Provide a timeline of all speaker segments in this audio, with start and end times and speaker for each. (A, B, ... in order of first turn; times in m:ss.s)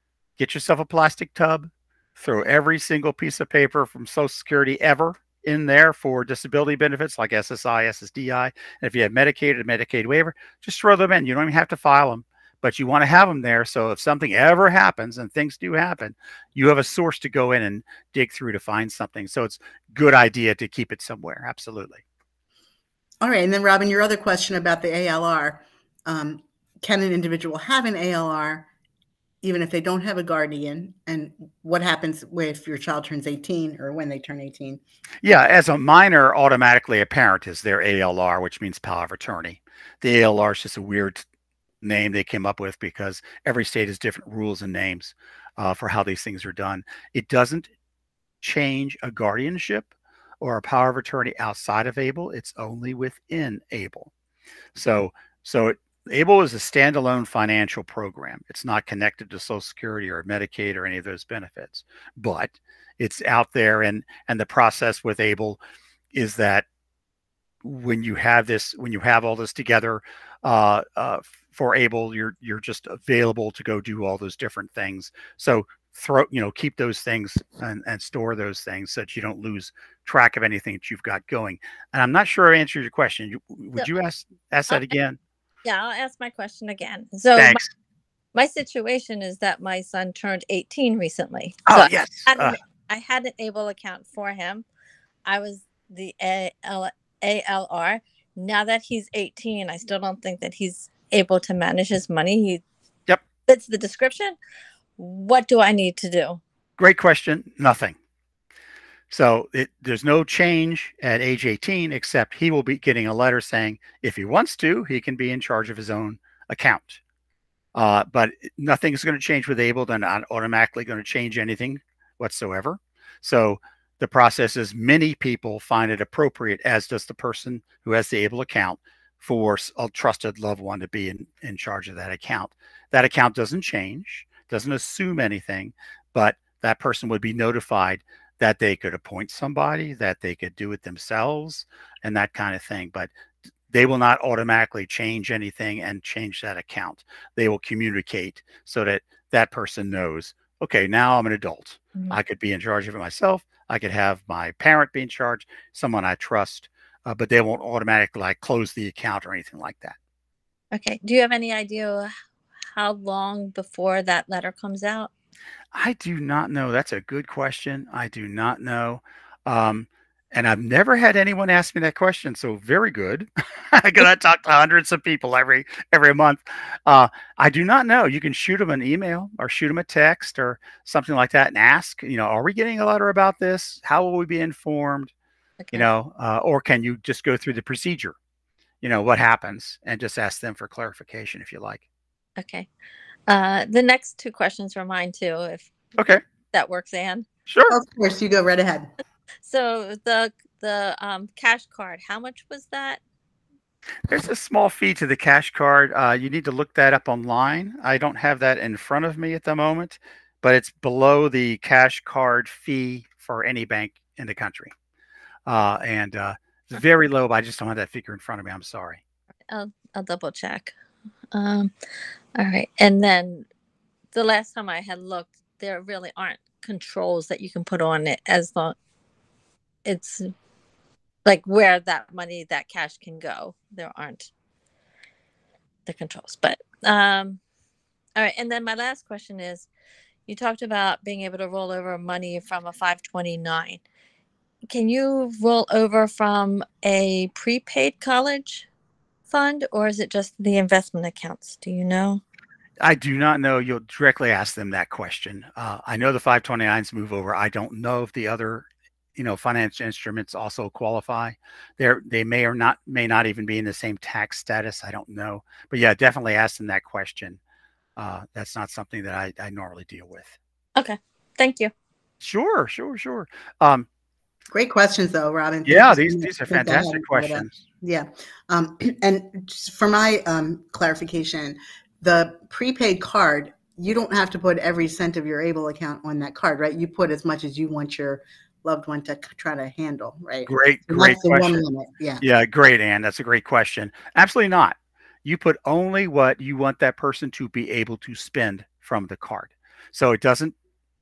0:00.4-0:22.0 A
0:23.2-0:28.7 B
0:29.4-0:34.8 B
0:35.2-0:41.2 A
0:41.8-0:47.7 A
0:48.4-0:49.9 A
0:50.4-0:54.1 A
0:54.8-1:05.6 A
1:06.1-1:06.6 A
1:07.6-1:25.2 A
1:25.6-1:27.6 C
1:27.4-1:27.7 A
1:28.3-1:34.6 C
1:31.7-1:32.6 A
1:35.3-1:42.6 C
1:43.5-1:44.4 C
1:45.0-1:46.4 C
1:46.8-1:48.0 A
1:49.1-1:57.0 A
1:57.8-2:23.1 A
2:23.7-2:40.0 A
2:40.7-2:42.1 C
2:42.7-2:45.1 C
2:45.7-3:05.1 A
3:05.6-3:05.9 C
3:05.7-3:08.1 A
3:08.8-3:11.8 A
3:12.4-3:12.7 C
3:13.3-3:15.8 C
3:16.0-3:16.2 A
3:16.5-3:17.3 C
3:17.5-3:17.7 A
3:17.7-3:18.9 B
3:19.4-3:23.0 C
3:24.1-3:34.7 A
3:35.4-3:39.0 A
3:39.5-3:40.7 C
3:41.3-3:41.7 C
3:42.4-3:43.4 C
3:44.1-3:48.8 C
3:49.8-3:50.3 C
3:51.3-3:54.3 C
3:55.9-3:57.4 C
3:58.2-3:59.7 C
4:00.3-4:03.8 C
4:04.7-4:08.7 C
4:09.3-4:12.2 C
4:12.8-4:27.4 A
4:28.0-4:30.4 A
4:30.8-4:31.7 C
4:32.2-4:33.9 A
4:34.5-4:52.2 B
4:35.6-4:37.6 A
4:50.5-4:51.6 A
4:52.2-5:00.5 A